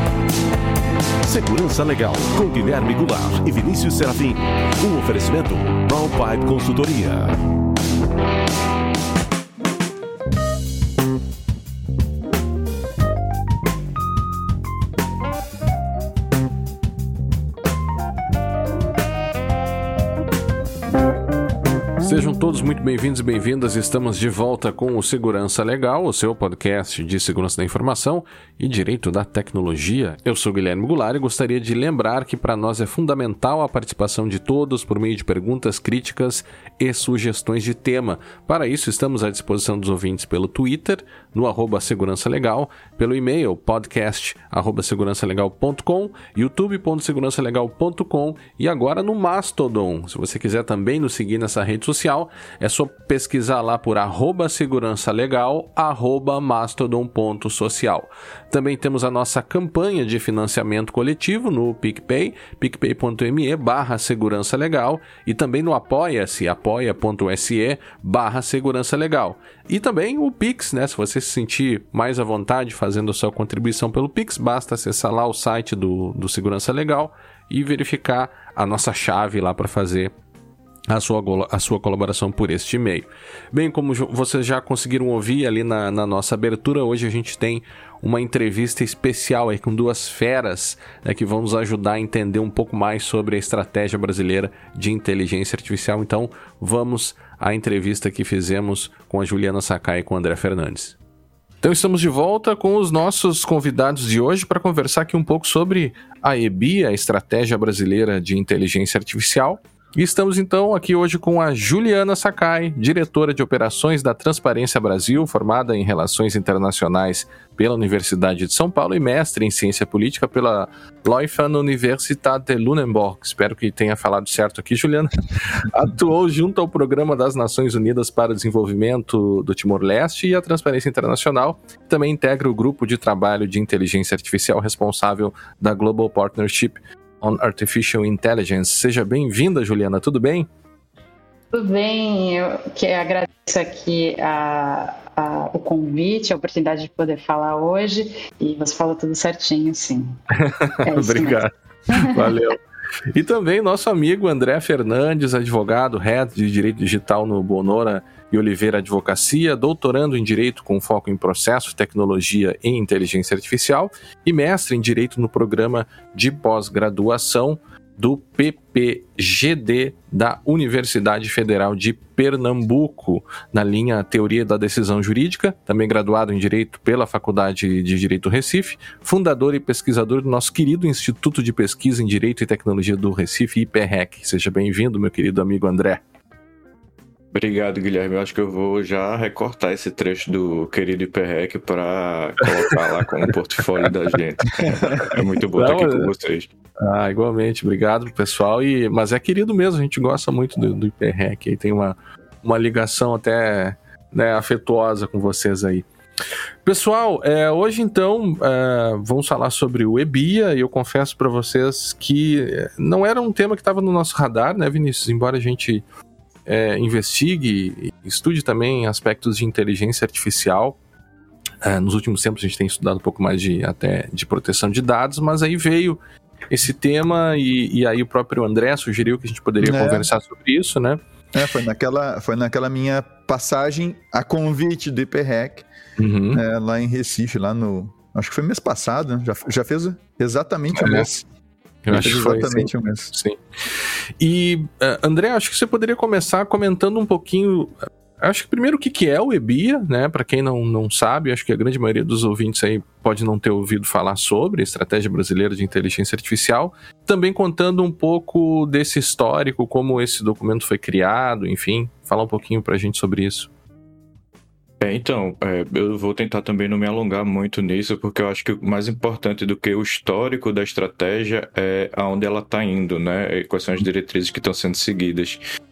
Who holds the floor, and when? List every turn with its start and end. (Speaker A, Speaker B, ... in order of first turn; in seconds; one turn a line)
Speaker A: 1.2-7.4
Speaker B: 22.0-80.1
Speaker B: 80.9-101.0
Speaker B: 101.6-140.5
Speaker C: 141.5-150.2
Speaker B: 150.4-152.6
Speaker C: 150.8-152.4
Speaker B: 153.1-186.0
Speaker D: 187.3-196.5
Speaker B: 194.7-196.1
Speaker B: 196.8-205.9
Speaker B: 206.7-215.8
Speaker B: 216.5-220.8
Speaker B: 221.6-231.0
Speaker E: 229.6-230.1
Speaker E: 231.3-235.7
Speaker B: 236.0-236.4
Speaker E: 236.3-241.2
Speaker B: 240.8-241.1
Speaker B: 241.9-243.4
Speaker E: 241.9-243.1
Speaker B: 244.2-263.5
Speaker D: 264.8-275.4